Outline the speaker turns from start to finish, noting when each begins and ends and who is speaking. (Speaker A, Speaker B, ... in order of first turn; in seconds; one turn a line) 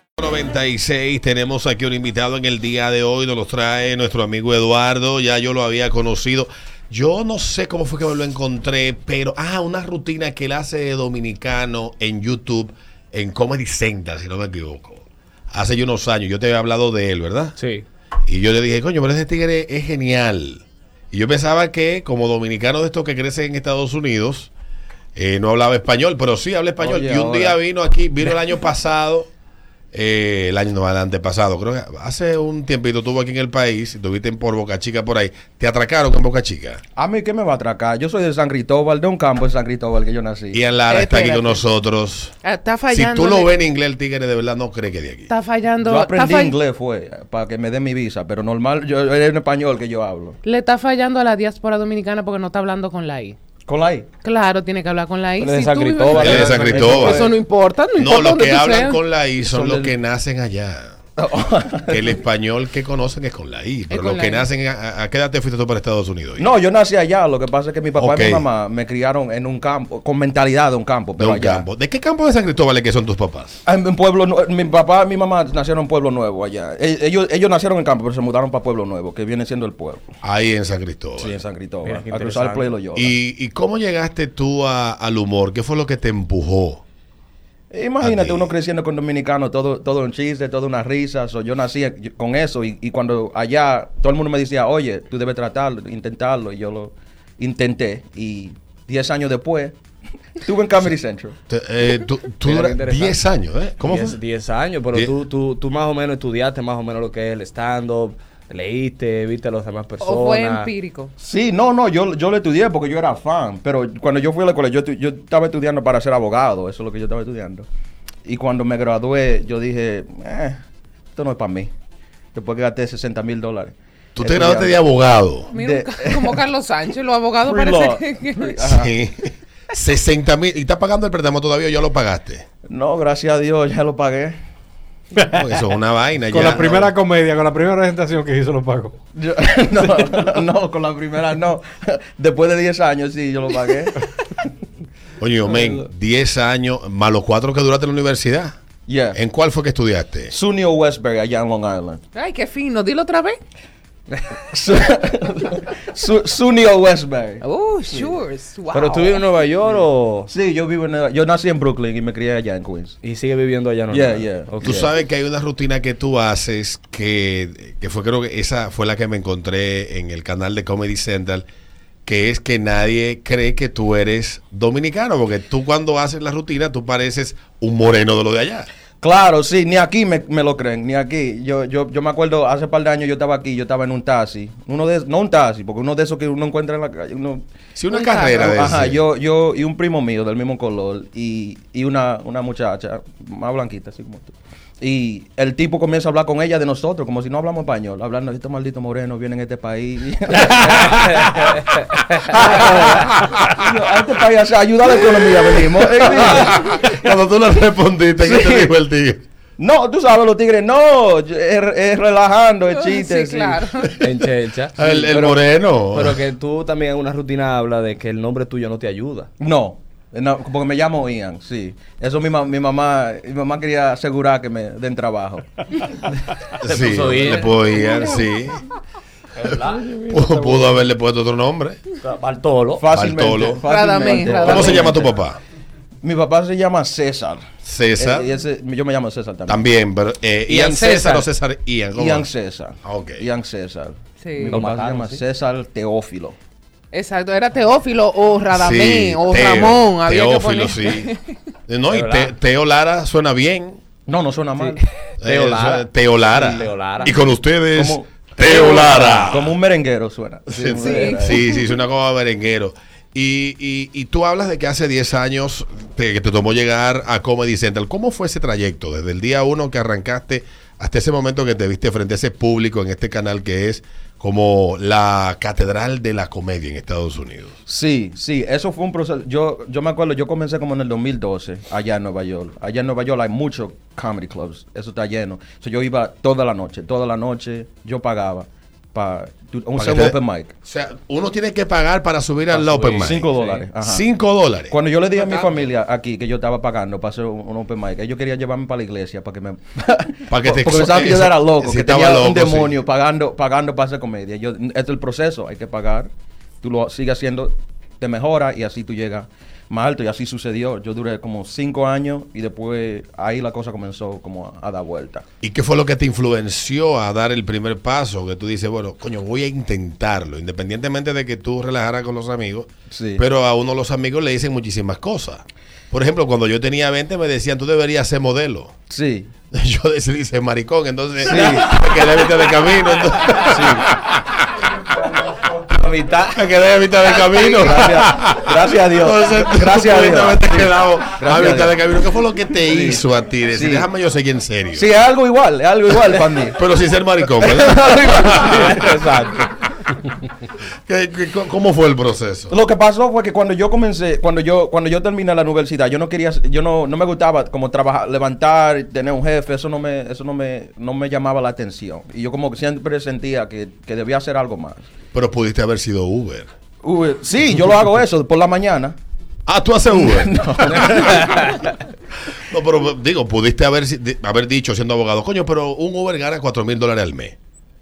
Speaker A: 0.2-17.6
Speaker B: 17.6-17.9
Speaker A: 18.3-24.5
Speaker A: 25.1-29.3
Speaker C: 26.8-27.6
Speaker A: 29.9-36.8
Speaker C: 37.0-40.6
Speaker A: 40.5-42.4
Speaker D: 40.9-41.6
Speaker D: 42.4-43.5
Speaker A: 42.9-45.3
Speaker D: 45.3-46.6
Speaker C: 45.8-50.4
Speaker D: 50.4-53.4
Speaker C: 53.6-54.1
Speaker D: 54.2-59.0
Speaker B: 55.4-56.9
Speaker A: 56.1-57.3
Speaker C: 56.2-57.3
Speaker A: 57.9-61.0
Speaker B: 59.5-59.9
Speaker C: 61.2-62.0
Speaker A: 61.9-66.5
Speaker D: 63.9-64.5
Speaker C: 66.4-71.7
Speaker A: 68.0-68.4
Speaker A: 71.2-73.6
Speaker C: 73.6-80.1
Speaker A: 80.2-81.3
Speaker C: 81.2-83.1
Speaker B: 81.8-82.7
Speaker A: 82.9-86.8
Speaker C: 87.7-99.8
Speaker A: 88.0-88.5
Speaker C: 100.3-101.4
Speaker A: 101.5-104.2
Speaker B: 102.4-103.2
Speaker B: 103.8-110.7
Speaker D: 110.0-111.1
Speaker C: 111.2-117.7
Speaker C: 118.2-120.6
Speaker C: 121.1-121.7
Speaker C: 122.3-124.8
Speaker A: 124.2-125.5
Speaker D: 125.5-128.7
Speaker C: 125.5-126.4
Speaker C: 127.4-128.9
Speaker A: 128.6-132.5
Speaker C: 132.7-134.4
Speaker E: 135.2-135.5
Speaker A: 135.2-136.9
Speaker E: 136.3-139.0
Speaker C: 136.4-136.8
Speaker C: 139.1-144.1
Speaker E: 139.8-140.3
Speaker A: 145.2-148.6
Speaker C: 148.9-149.2
Speaker A: 149.1-150.3
Speaker C: 150.3-152.0
Speaker D: 152.1-153.4
Speaker C: 154.5-158.1
Speaker D: 157.4-159.2
Speaker B: 158.7-160.3
Speaker C: 160.3-163.0
Speaker B: 163.0-164.8
Speaker C: 163.9-164.9
Speaker A: 164.6-171.4
Speaker A: 172.0-178.7
Speaker C: 179.0-187.4
Speaker A: 187.8-189.0
Speaker D: 187.9-188.5
Speaker C: 188.2-201.5
Speaker B: 200.5-202.8
Speaker C: 202.3-206.9
Speaker A: 202.4-203.7
Speaker A: 205.0-209.2
Speaker C: 208.2-208.7
Speaker C: 209.6-213.7
Speaker D: 212.7-214.0
Speaker B: 214.0-214.8
Speaker A: 214.8-216.2
Speaker C: 214.8-215.4
Speaker B: 215.9-219.3
Speaker C: 219.4-225.5
Speaker B: 226.5-228.1
Speaker A: 226.6-228.6
Speaker B: 229.3-230.8
Speaker A: 230.1-231.8
Speaker B: 232.0-232.9
Speaker C: 232.8-235.1
Speaker A: 232.8-233.6
Speaker D: 233.7-235.0
Speaker A: 234.3-235.4
Speaker C: 236.0-239.6
Speaker A: 237.6-238.3
Speaker A: 239.5-242.3
Speaker B: 240.5-241.3
Speaker C: 241.9-246.4
Speaker A: 242.8-243.2
Speaker D: 244.2-244.6
Speaker B: 244.5-245.2
Speaker D: 246.9-251.2
Speaker A: 248.5-251.1
Speaker A: 251.7-253.8
Speaker B: 251.9-252.3
Speaker C: 254.1-254.8
Speaker B: 254.6-257.1
Speaker A: 255.2-259.6
Speaker C: 257.7-261.5
Speaker B: 258.8-259.1
Speaker A: 260.5-277.6
Speaker D: 260.8-261.6
Speaker C: 277.7-290.5
Speaker A: 289.8-293.3
Speaker B: 292.5-293.6
Speaker C: 292.9-294.0
Speaker A: 293.8-294.8
Speaker C: 294.7-306.1
Speaker A: 300.3-302.8
Speaker C: 306.6-315.2
Speaker A: 315.4-328.7
Speaker C: 322.9-323.2
Speaker C: 328.9-329.3
Speaker A: 329.5-334.5
Speaker C: 331.2-331.8
Speaker C: 333.3-333.9
Speaker B: 335.7-336.4
Speaker A: 336.3-344.9
Speaker C: 337.3-341.8
Speaker C: 342.7-343.9
Speaker C: 344.7-346.6
Speaker A: 346.5-348.9
Speaker C: 347.4-348.9
Speaker B: 348.4-349.6
Speaker A: 350.9-352.5
Speaker C: 352.5-364.9
Speaker A: 365.1-366.5
Speaker C: 366.8-369.0
Speaker A: 369.4-371.4
Speaker C: 369.9-371.6
Speaker A: 372.3-377.4